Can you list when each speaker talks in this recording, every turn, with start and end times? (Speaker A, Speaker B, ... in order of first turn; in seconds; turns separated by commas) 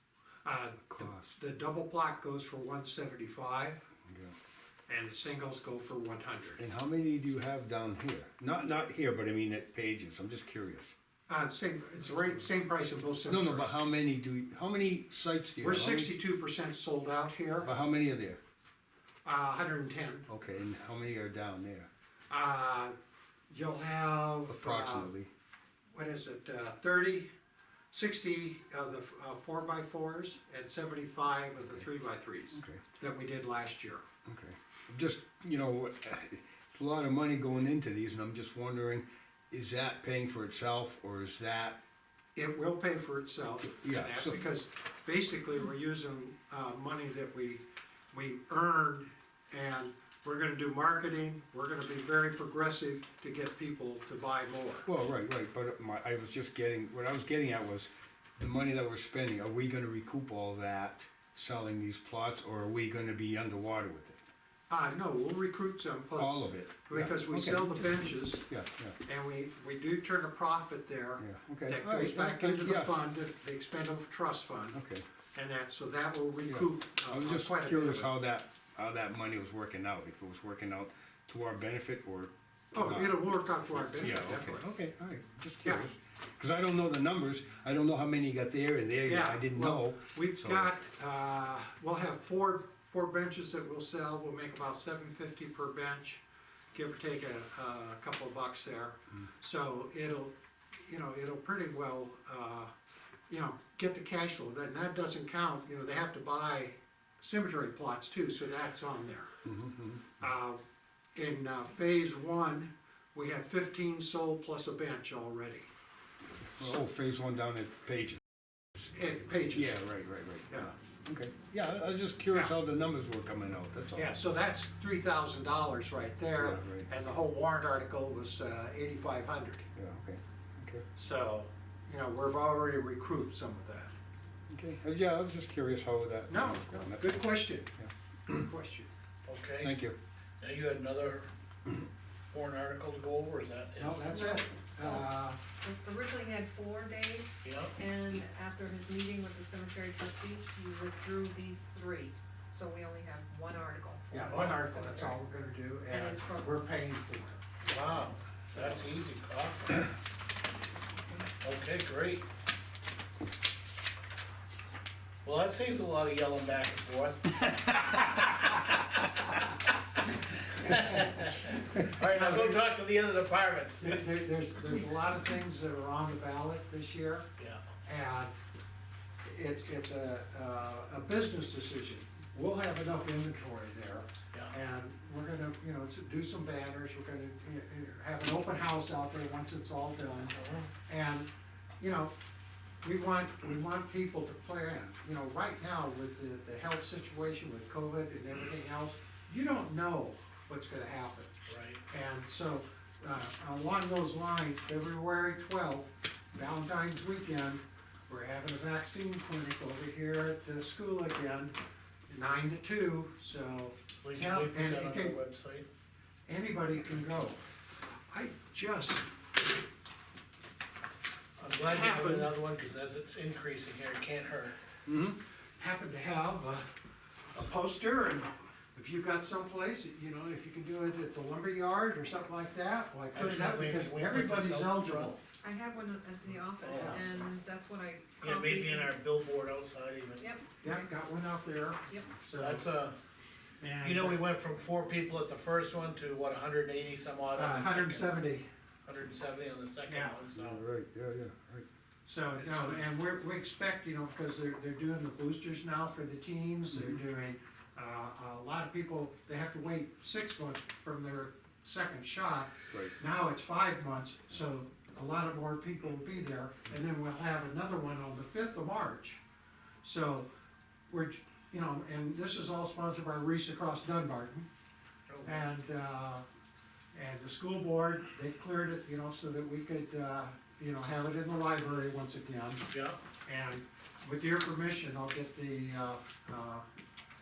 Speaker A: 0.4-3.8, Speaker B: 0.9-1.3, Speaker B: 4.1-4.3, Speaker A: 4.9-6.6, Speaker B: 6.6-10.9, Speaker A: 11.3-13.7, Speaker B: 13.3-16.1, Speaker A: 15.6-17.7, Speaker B: 17.6-18.4, Speaker A: 19.2-20.3, Speaker B: 20.3-21.9, Speaker A: 22.3-22.9, Speaker A: 23.5-25.1, Speaker B: 24.5-25.3, Speaker A: 25.9-27.3, Speaker A: 27.9-34.0, Speaker B: 32.5-32.8, Speaker B: 34.2-41.8, Speaker A: 42.3-54.9, Speaker B: 43.8-44.4, Speaker B: 54.9-64.2, Speaker A: 64.7-68.5, Speaker B: 66.2-69.0, Speaker A: 69.0-74.8, Speaker B: 71.2-72.9, Speaker B: 74.7-75.0, Speaker A: 75.3-78.1, Speaker B: 76.5-83.3, Speaker A: 82.7-84.6, Speaker B: 83.9-90.7, Speaker A: 85.6-85.9, Speaker A: 89.0-96.2, Speaker A: 96.7-102.7, Speaker A: 103.3-109.3, Speaker B: 109.4-110.2, Speaker A: 110.2-110.6, Speaker A: 111.1-115.7, Speaker B: 116.3-118.2, Speaker A: 118.8-119.8, Speaker B: 119.5-124.1, Speaker A: 123.9-129.7, Speaker B: 126.4-126.9, Speaker B: 129.7-130.9, Speaker A: 130.9-133.9, Speaker B: 134.5-137.3, Speaker A: 136.3-137.8, Speaker B: 137.8-138.4, Speaker A: 138.3-138.9, Speaker C: 139.2-139.7, Speaker B: 139.6-140.0, Speaker C: 140.4-141.3, Speaker C: 142.3-144.0, Speaker A: 143.8-145.4, Speaker D: 144.0-155.1, Speaker C: 147.4-147.7, Speaker A: 154.1-157.4, Speaker C: 154.2-154.7, Speaker D: 155.9-156.6, Speaker C: 157.6-159.8, Speaker C: 161.4-162.2, Speaker C: 165.2-174.0, Speaker A: 172.0-172.6, Speaker A: 173.8-177.3, Speaker A: 177.8-178.3, Speaker A: 179.2-192.1, Speaker C: 190.3-190.7, Speaker A: 192.8-201.3, Speaker C: 201.5-201.8, Speaker A: 201.9-211.5, Speaker A: 212.1-215.2, Speaker C: 214.0-215.7, Speaker A: 216.3-217.4, Speaker A: 218.1-219.1, Speaker C: 221.4-224.6, Speaker A: 221.6-222.3, Speaker B: 224.9-225.2, Speaker A: 225.6-226.7, Speaker A: 227.3-235.2, Speaker C: 233.1-235.1, Speaker D: 235.4-238.9, Speaker C: 236.6-237.1, Speaker A: 236.6-237.1, Speaker C: 238.2-240.3, Speaker D: 240.2-240.9, Speaker A: 240.6-242.7, Speaker C: 242.4-242.9, Speaker A: 243.6-244.2, Speaker C: 243.8-248.1, Speaker A: 247.3-248.5, Speaker C: 248.8-250.6, Speaker A: 249.9-250.2, Speaker B: 250.3-251.7, Speaker A: 252.1-269.2, Speaker A: 269.8-270.3, Speaker A: 270.9-274.5, Speaker C: 275.1-275.5, Speaker A: 275.2-276.2, Speaker A: 276.9-282.6, Speaker C: 282.7-283.0, Speaker A: 283.2-286.6